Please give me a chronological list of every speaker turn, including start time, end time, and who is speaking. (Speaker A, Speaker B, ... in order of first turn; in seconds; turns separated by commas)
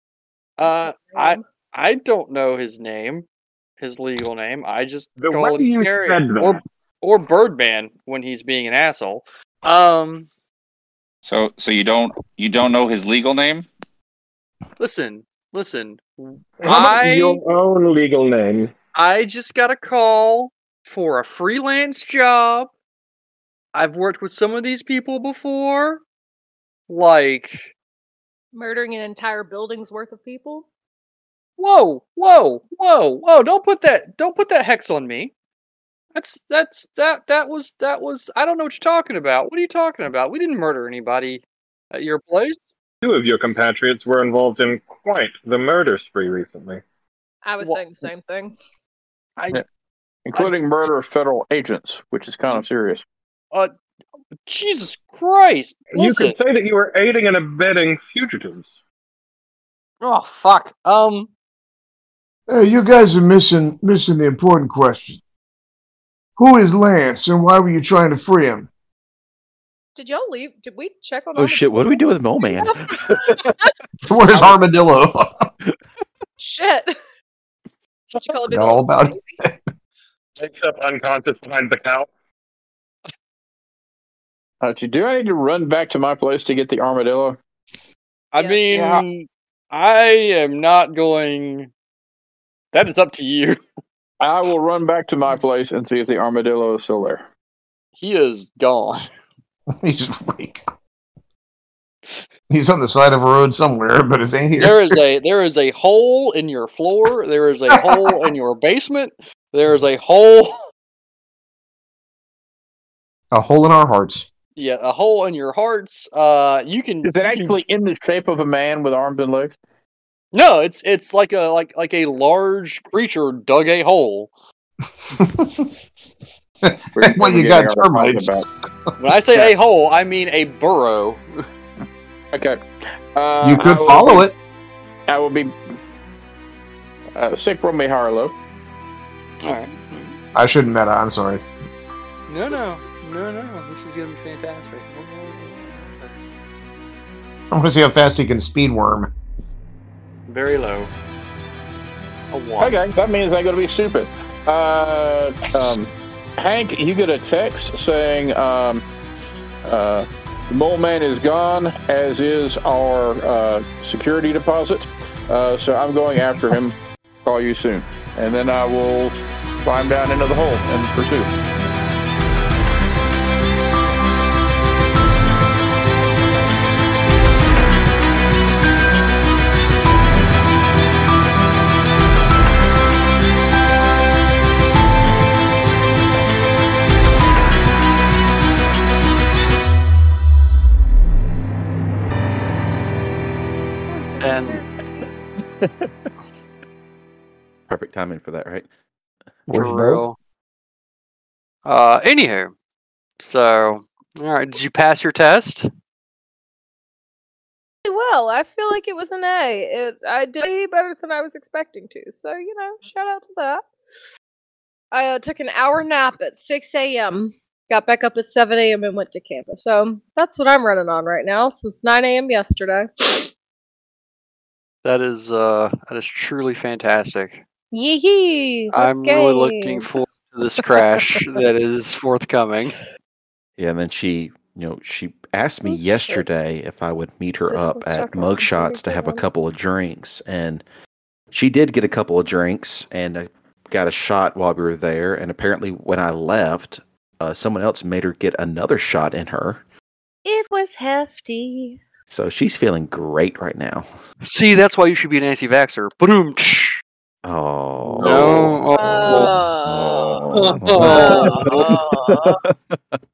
Speaker A: 0.6-3.3, Speaker B: 0.7-1.4, Speaker A: 3.8-10.3, Speaker C: 5.2-6.6, Speaker D: 11.2-13.7, Speaker A: 14.8-17.4, Speaker C: 16.6-18.7, Speaker A: 18.9-22.7, Speaker A: 23.7-26.0, Speaker A: 26.9-27.7, Speaker B: 28.5-30.7, Speaker A: 31.6-35.3, Speaker A: 36.1-42.6, Speaker C: 43.0-46.8, Speaker B: 47.4-48.5, Speaker E: 50.3-53.0, Speaker A: 54.5-56.4, Speaker C: 55.9-58.8, Speaker A: 60.0-61.3, Speaker F: 62.5-65.2, Speaker F: 66.4-68.7, Speaker B: 70.0-73.7, Speaker G: 71.4-73.6, Speaker F: 74.0-75.5, Speaker B: 76.4-77.0, Speaker B: 78.1-79.4, Speaker F: 78.5-79.6, Speaker C: 80.4-82.1, Speaker E: 84.6-87.4, Speaker A: 88.3-91.7, Speaker B: 88.4-88.8, Speaker E: 88.7-89.0, Speaker A: 92.7-93.6, Speaker E: 94.2-97.2, Speaker A: 98.0-99.1, Speaker F: 99.8-100.6, Speaker F: 102.5-105.0, Speaker A: 104.6-110.5, Speaker F: 113.3-114.3, Speaker A: 114.6-117.6, Speaker E: 117.0-119.6, Speaker A: 120.3-124.3, Speaker F: 125.1-125.7, Speaker F: 126.6-128.6, Speaker E: 127.0-128.4, Speaker A: 129.0-131.2, Speaker E: 132.3-132.6, Speaker E: 133.1-134.3, Speaker F: 133.4-134.4, Speaker E: 135.1-135.5, Speaker E: 137.2-138.3, Speaker A: 139.4-140.2, Speaker F: 140.3-141.4, Speaker A: 142.3-146.2, Speaker F: 147.5-149.1, Speaker A: 150.3-150.9, Speaker A: 152.3-152.8, Speaker E: 152.6-158.8, Speaker E: 159.6-171.3, Speaker B: 193.9-195.1, Speaker A: 194.2-194.6, Speaker G: 197.7-198.7, Speaker F: 199.5-200.0, Speaker A: 199.5-200.2, Speaker A: 201.7-202.5, Speaker A: 203.2-205.7, Speaker B: 207.9-213.7, Speaker B: 214.9-223.3, Speaker A: 224.8-227.4, Speaker B: 227.7-229.9, Speaker A: 228.7-232.8, Speaker G: 233.6-240.6, Speaker B: 235.7-236.2, Speaker B: 237.5-239.2, Speaker G: 241.3-249.6, Speaker B: 250.3-251.8, Speaker G: 252.1-253.9, Speaker A: 254.2-256.8, Speaker G: 257.2-262.5, Speaker A: 258.0-259.3, Speaker B: 258.8-260.2, Speaker A: 260.3-261.8, Speaker B: 260.8-262.3